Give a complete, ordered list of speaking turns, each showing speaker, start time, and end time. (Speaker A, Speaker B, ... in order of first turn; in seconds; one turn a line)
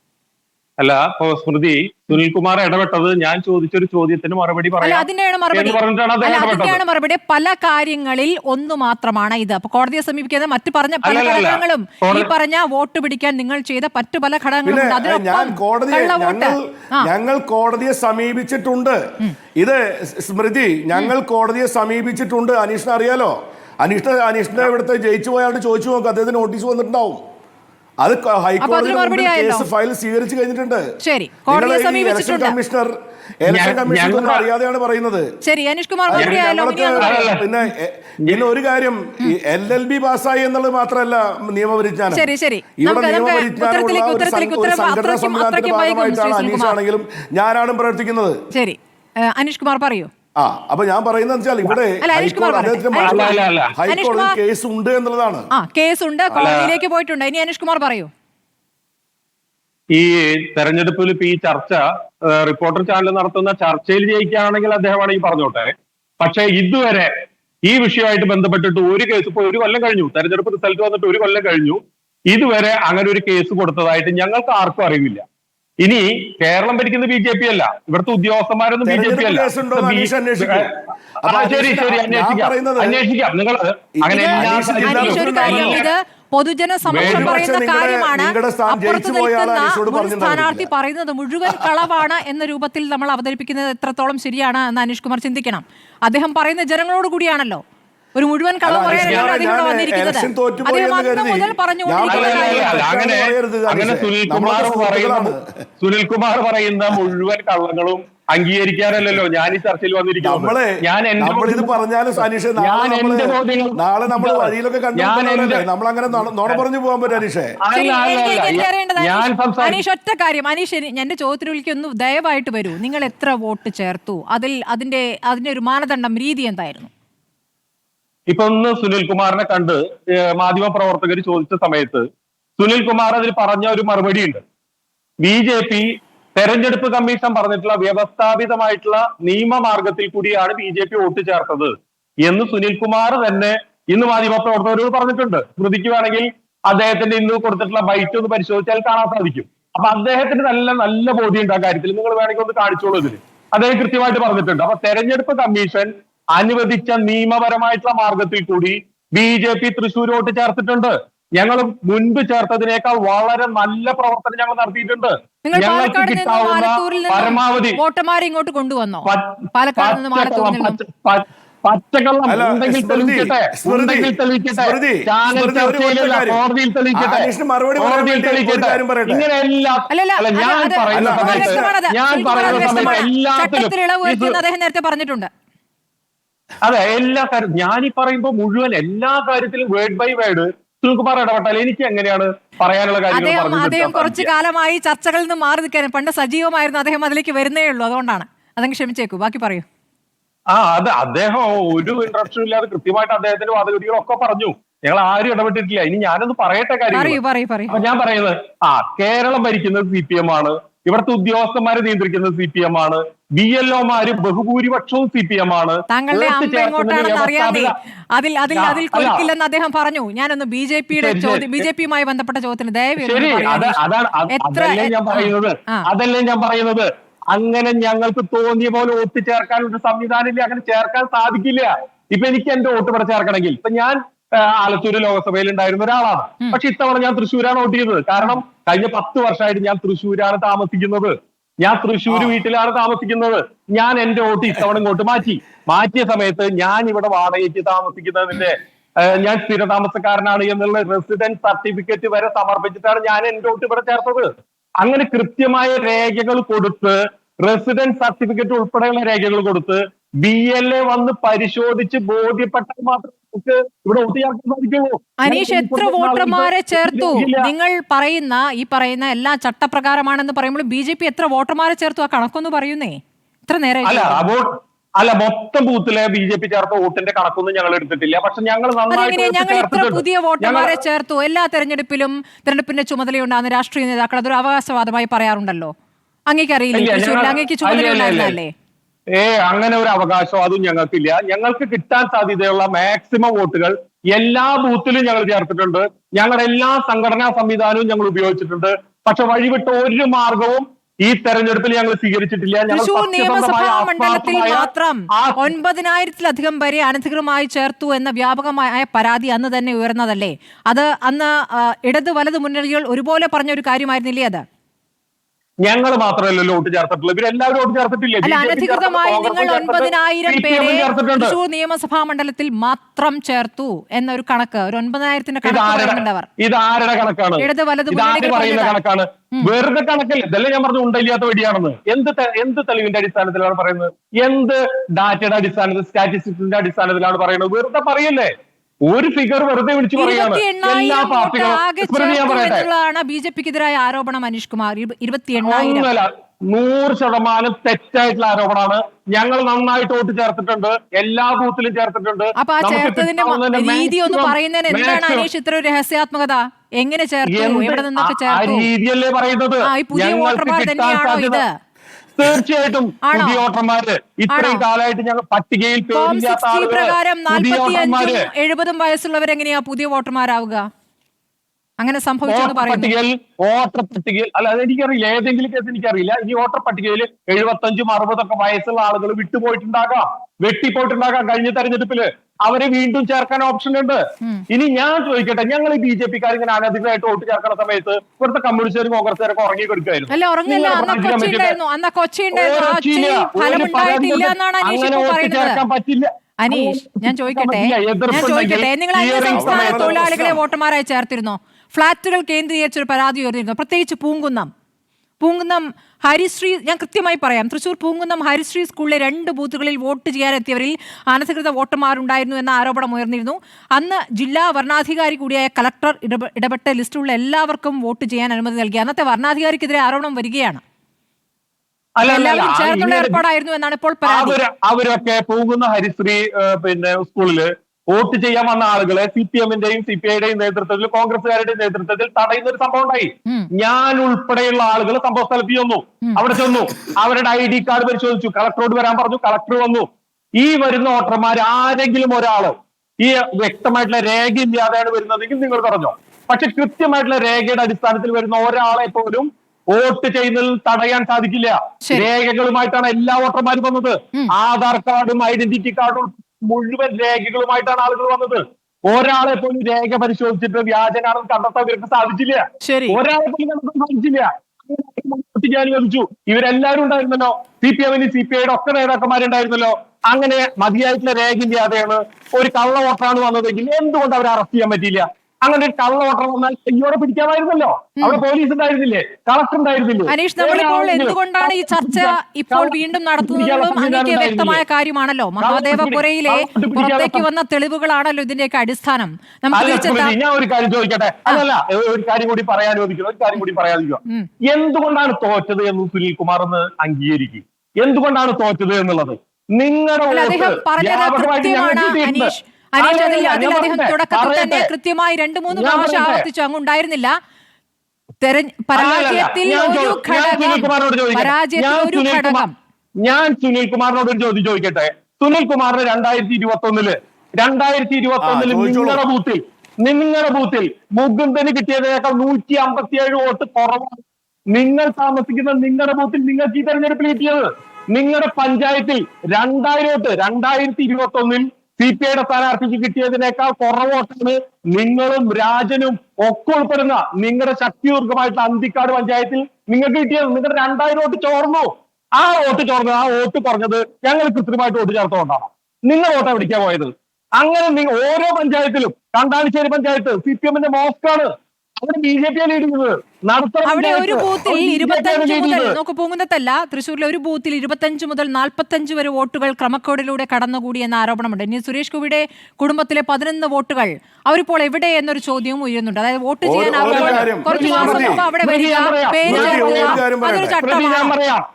Speaker A: 0.8-6.8
Speaker B: 4.8-17.1
Speaker A: 11.0-12.3
Speaker C: 14.6-19.0
Speaker C: 19.6-27.2
Speaker C: 28.0-30.8
Speaker B: 28.6-29.6
Speaker B: 31.0-32.5
Speaker C: 31.5-35.3
Speaker A: 33.5-34.5
Speaker B: 35.4-37.4
Speaker C: 36.1-42.3
Speaker A: 36.1-36.4
Speaker A: 37.0-37.4
Speaker B: 42.1-46.8
Speaker C: 42.8-48.4
Speaker B: 48.5-48.8
Speaker B: 49.3-50.1
Speaker C: 50.4-55.5
Speaker B: 52.0-54.3
Speaker A: 53.0-53.7
Speaker B: 55.5-58.1
Speaker A: 56.4-56.7
Speaker A: 59.9-67.1
Speaker A: 67.7-71.8
Speaker A: 72.3-75.2
Speaker A: 75.8-80.7
Speaker C: 78.8-80.7
Speaker C: 81.2-83.0
Speaker A: 81.2-85.9
Speaker C: 84.0-85.8
Speaker B: 84.1-97.6
Speaker C: 86.9-90.7
Speaker A: 86.9-87.4
Speaker B: 98.1-102.9
Speaker C: 98.6-105.4
Speaker A: 98.8-99.4
Speaker A: 102.1-111.7
Speaker C: 110.2-117.5
Speaker A: 112.6-116.6
Speaker A: 117.6-119.8
Speaker B: 117.7-126.9
Speaker A: 128.3-132.0
Speaker A: 132.6-134.4
Speaker A: 135.2-141.7
Speaker A: 142.3-167.8
Speaker B: 165.4-170.8
Speaker A: 169.1-184.4
Speaker C: 172.3-176.4
Speaker C: 176.9-179.2
Speaker B: 179.9-185.3
Speaker C: 180.9-181.7
Speaker C: 182.4-183.0
Speaker A: 186.6-194.3
Speaker B: 193.1-199.6
Speaker A: 200.5-207.2
Speaker B: 206.9-207.8
Speaker A: 207.7-217.7
Speaker B: 215.9-225.8
Speaker A: 218.5-219.3
Speaker A: 221.0-221.7
Speaker A: 223.0-254.3
Speaker A: 254.8-267.4
Speaker B: 265.2-272.9
Speaker B: 273.5-274.2
Speaker A: 273.9-274.5
Speaker A: 275.0-280.8
Speaker B: 278.9-285.7
Speaker B: 286.3-288.5
Speaker A: 286.7-288.4
Speaker A: 289.1-305.5
Speaker B: 302.7-314.4
Speaker A: 315.6-321.4
Speaker B: 318.2-326.3
Speaker A: 325.4-338.3
Speaker B: 327.4-328.8
Speaker A: 338.9-342.7
Speaker B: 339.9-345.9
Speaker A: 345.4-355.3
Speaker B: 352.4-358.7
Speaker A: 357.3-361.4
Speaker B: 359.7-361.5
Speaker A: 362.2-368.3
Speaker B: 363.1-363.4
Speaker B: 364.3-364.6
Speaker B: 365.9-370.6
Speaker B: 371.8-372.9
Speaker A: 372.3-391.6
Speaker B: 390.1-395.6
Speaker A: 392.3-400.0
Speaker B: 396.4-404.5
Speaker C: 399.3-400.4
Speaker B: 405.2-420.6
Speaker A: 422.0-423.2
Speaker B: 422.0-424.4
Speaker A: 424.1-439.9
Speaker A: 440.4-484.6
Speaker B: 462.6-463.0
Speaker B: 480.1-490.1
Speaker A: 485.4-487.2
Speaker A: 489.5-504.7
Speaker B: 500.1-507.1
Speaker A: 505.5-506.3
Speaker B: 508.2-512.5
Speaker A: 508.7-512.4
Speaker A: 513.0-555.8
Speaker C: 518.2-519.0
Speaker B: 553.6-571.1
Speaker C: 566.4-568.2
Speaker A: 566.8-570.0
Speaker C: 569.2-570.6
Speaker A: 570.6-571.4